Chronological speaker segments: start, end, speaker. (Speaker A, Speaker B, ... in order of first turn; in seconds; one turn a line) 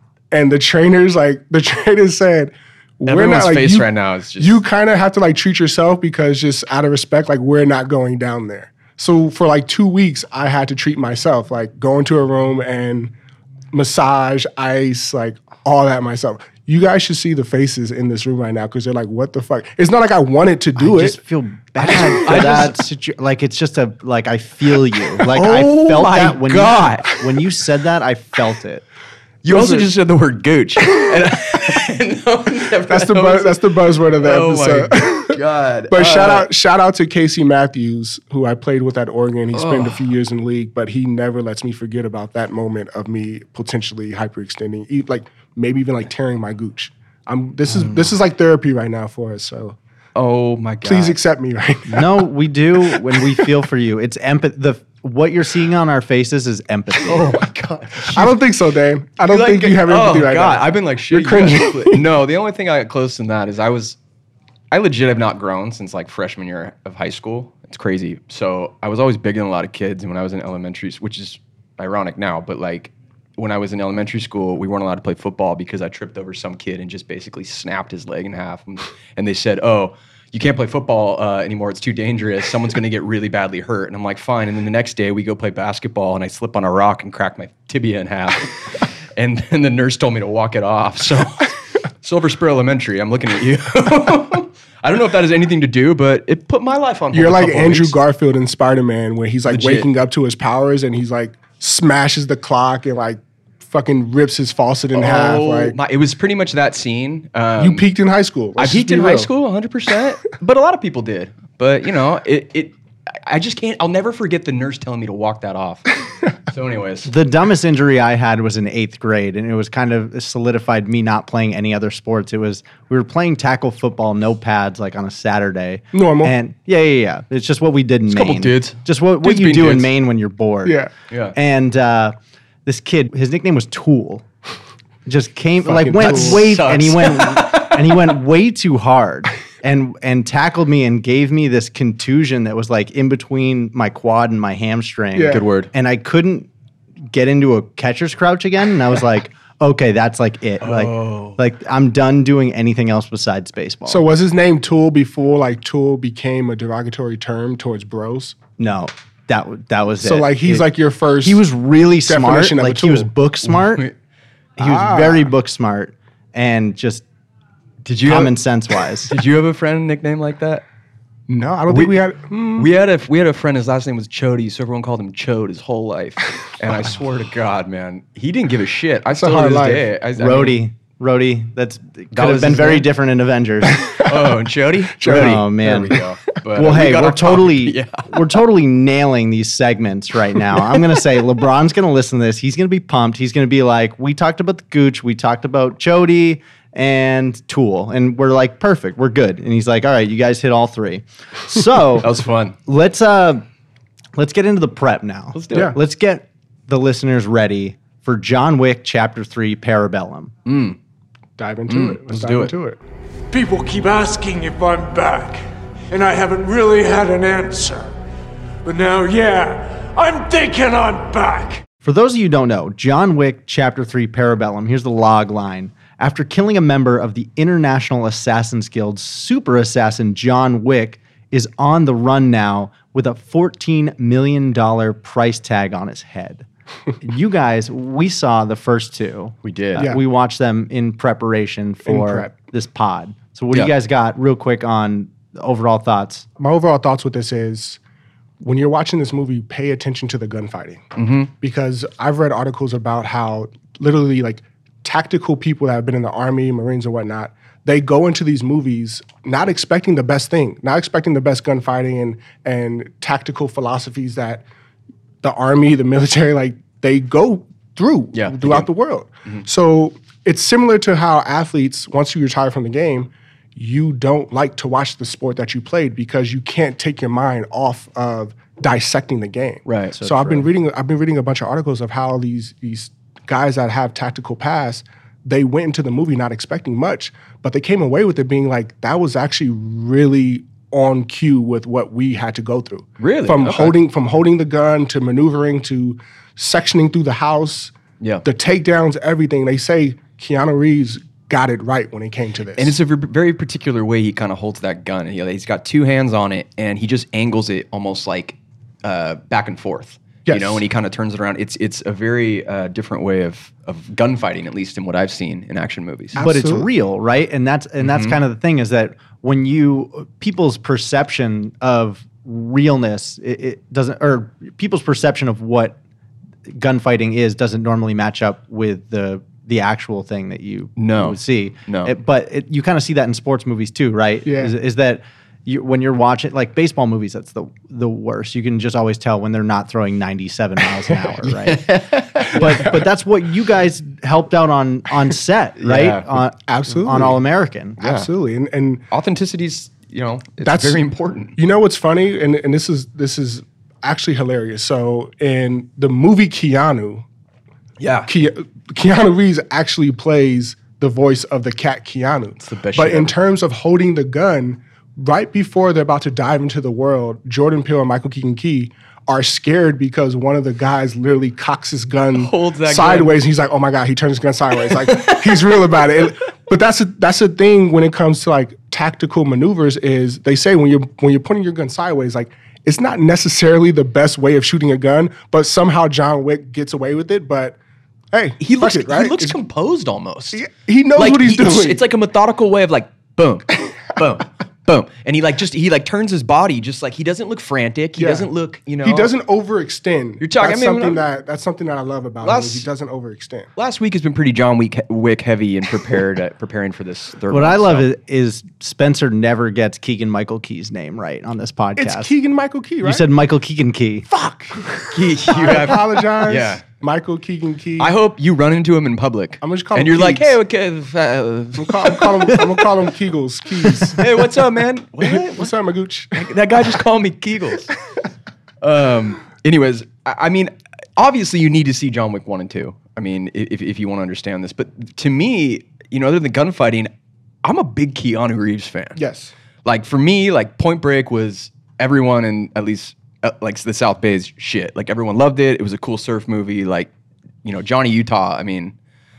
Speaker A: 0.3-13.1
Speaker B: 3.0-4.6
Speaker A: 13.7-21.2
Speaker C: 20.8-28.8
Speaker B: 21.8-22.8
Speaker B: 25.2-27.1
Speaker B: 29.4-36.5
Speaker A: 29.4-29.9
Speaker A: 32.9-49.8
Speaker B: 39.5-40.0
Speaker C: 47.7-48.1
Speaker B: 50.1-51.1
Speaker A: 50.8-52.2
Speaker C: 51.9-57.4
Speaker A: 52.8-53.5
Speaker B: 57.0-58.4
Speaker A: 58.0-62.0
Speaker B: 59.2-64.0
Speaker B: 64.7-98.0
Speaker A: 97.1-105.8
Speaker B: 99.5-99.9
Speaker B: 104.9-107.8
Speaker A: 107.6-109.3
Speaker B: 108.6-117.1
Speaker C: 117.0-134.2
Speaker A: 125.9-126.3
Speaker B: 128.1-129.9
Speaker A: 130.6-130.9
Speaker B: 131.1-131.3
Speaker C: 135.1-146.5
Speaker A: 135.6-136.4
Speaker B: 136.0-138.1
Speaker A: 145.1-145.4
Speaker B: 145.3-145.7
Speaker C: 147.1-154.0
Speaker B: 150.6-151.4
Speaker A: 153.8-158.4
Speaker C: 158.6-160.7
Speaker A: 160.0-161.5
Speaker C: 161.2-163.9
Speaker A: 162.0-163.1
Speaker B: 163.4-163.9
Speaker C: 164.6-167.0
Speaker A: 164.6-165.3
Speaker B: 167.8-168.3
Speaker C: 168.1-169.1
Speaker B: 169.1-170.6
Speaker A: 171.3-172.7
Speaker B: 171.7-172.0
Speaker B: 172.6-180.6
Speaker A: 179.1-179.9
Speaker C: 180.2-184.0
Speaker B: 182.1-182.8
Speaker A: 183.7-184.1
Speaker B: 183.9-188.1
Speaker A: 185.0-185.4
Speaker C: 185.0-186.0
Speaker C: 186.5-202.1
Speaker B: 202.0-202.6
Speaker C: 202.7-203.4
Speaker C: 204.1-210.3
Speaker B: 205.3-205.8
Speaker B: 210.4-210.8
Speaker A: 211.4-212.8
Speaker B: 211.7-212.5
Speaker D: 213.3-217.9
Speaker D: 218.6-221.6
Speaker C: 221.8-236.4
Speaker C: 237.0-246.2
Speaker B: 239.4-239.9
Speaker A: 241.8-242.3
Speaker A: 246.4-247.8
Speaker A: 248.4-264.4
Speaker B: 250.9-251.3
Speaker A: 265.2-297.7
Speaker B: 268.1-268.7
Speaker B: 279.6-280.0
Speaker C: 280.0-280.5
Speaker B: 293.0-293.8
Speaker B: 298.0-298.2
Speaker A: 298.2-302.7
Speaker B: 302.6-316.2
Speaker A: 310.2-310.6
Speaker A: 316.1-316.7
Speaker C: 316.1-325.8
Speaker B: 317.8-318.1
Speaker C: 326.5-347.9
Speaker B: 330.8-331.9
Speaker A: 334.2-334.5
Speaker B: 341.4-342.7
Speaker A: 342.4-342.8
Speaker B: 345.6-346.1
Speaker A: 346.4-347.2
Speaker A: 347.8-348.8
Speaker B: 348.9-351.3
Speaker A: 350.4-350.8
Speaker A: 351.4-357.0
Speaker B: 357.8-358.1
Speaker A: 358.1-387.6
Speaker B: 362.4-363.1
Speaker B: 372.1-373.2
Speaker B: 374.7-375.6
Speaker A: 388.1-389.4
Speaker B: 388.4-390.4
Speaker A: 390.3-391.8
Speaker B: 391.0-399.1
Speaker A: 398.0-403.5
Speaker B: 400.2-401.0
Speaker B: 402.2-402.6
Speaker B: 403.6-407.9
Speaker C: 407.3-412.1
Speaker A: 411.8-413.1
Speaker C: 412.8-414.1
Speaker A: 414.1-417.9
Speaker B: 414.8-416.6
Speaker B: 417.8-422.6
Speaker A: 419.4-420.4
Speaker A: 421.6-424.1
Speaker B: 423.9-425.5
Speaker A: 425.0-426.3
Speaker B: 426.1-427.7
Speaker B: 428.6-436.9
Speaker B: 437.4-439.0
Speaker A: 438.9-439.3
Speaker B: 439.6-446.9
Speaker B: 447.4-448.7